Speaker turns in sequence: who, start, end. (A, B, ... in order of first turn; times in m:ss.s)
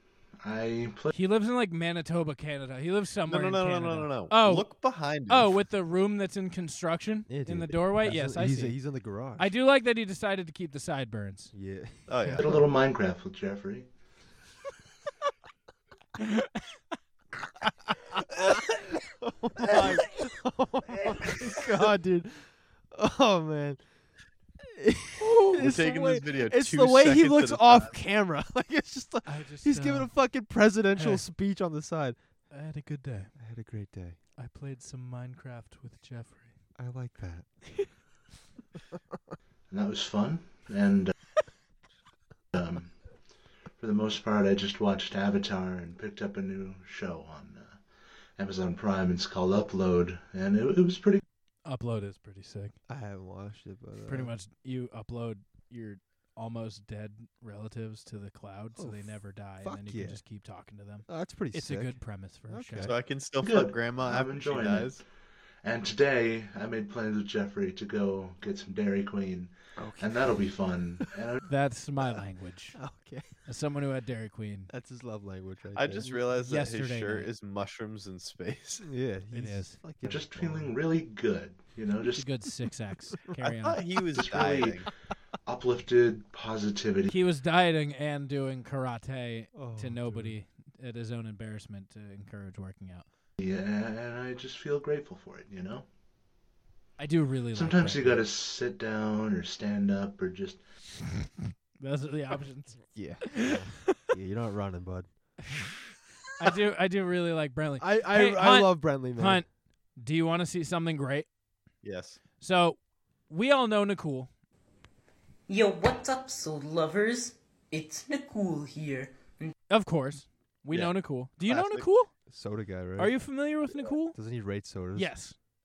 0:00.4-0:01.1 A
0:01.1-0:04.7 B
0:03.3-0:05.6 C
0:05.3-0:08.8 B
0:07.3-0:09.5 D
0:09.4-0:11.5 B
0:11.5-0:12.3 D
0:12.1-0:12.5 C
0:12.4-0:13.9 A
0:16.2-0:16.6 B
0:19.2-0:23.8 D
0:19.6-0:20.1 C
0:24.7-0:32.2 D
0:25.2-0:25.7 B
0:25.6-0:28.0 C
0:29.2-0:30.2 B
0:31.0-0:31.2 B
0:32.5-0:33.4 B
0:33.4-0:34.2 D
0:34.4-0:36.6 B
0:36.8-0:37.5 D
0:39.7-0:41.1 A
0:42.5-0:43.0 A
0:43.8-0:47.8 A
0:48.4-0:51.2 A
0:51.6-0:52.8 B
0:52.9-0:54.3 D
0:54.1-1:02.9 B
0:58.8-1:00.2 D
1:01.1-1:03.0 D
1:02.8-1:05.0 C
1:03.4-1:05.0 A
1:05.6-1:11.4 A
1:09.8-1:10.5 D
1:11.4-1:12.9 B
1:12.8-1:13.5 D
1:13.4-1:14.7 B
1:14.7-1:16.4 D
1:15.8-1:18.9 C
1:16.4-1:17.3 B
1:18.8-1:20.8 D
1:19.3-1:19.8 B
1:20.0-1:22.3 A
1:22.1-1:23.8 B
1:23.4-1:24.9 C
1:24.1-1:24.9 A
1:25.5-1:27.1 A
1:27.1-1:33.1 B
1:29.5-1:30.4 D
1:33.4-1:35.9 A
1:37.0-1:38.2 B
1:37.6-1:40.6 A
1:41.8-1:43.6 B
1:42.9-1:45.4 D
1:46.4-1:51.3 B
1:47.8-1:49.4 D
1:51.8-1:52.2 C
1:52.4-1:54.3 B
1:55.5-1:59.5 E
1:59.7-2:02.1 B
2:00.7-2:01.9 C
2:02.3-2:03.4 D
2:03.0-2:04.2 B
2:04.1-2:05.1 D
2:05.0-2:05.4 B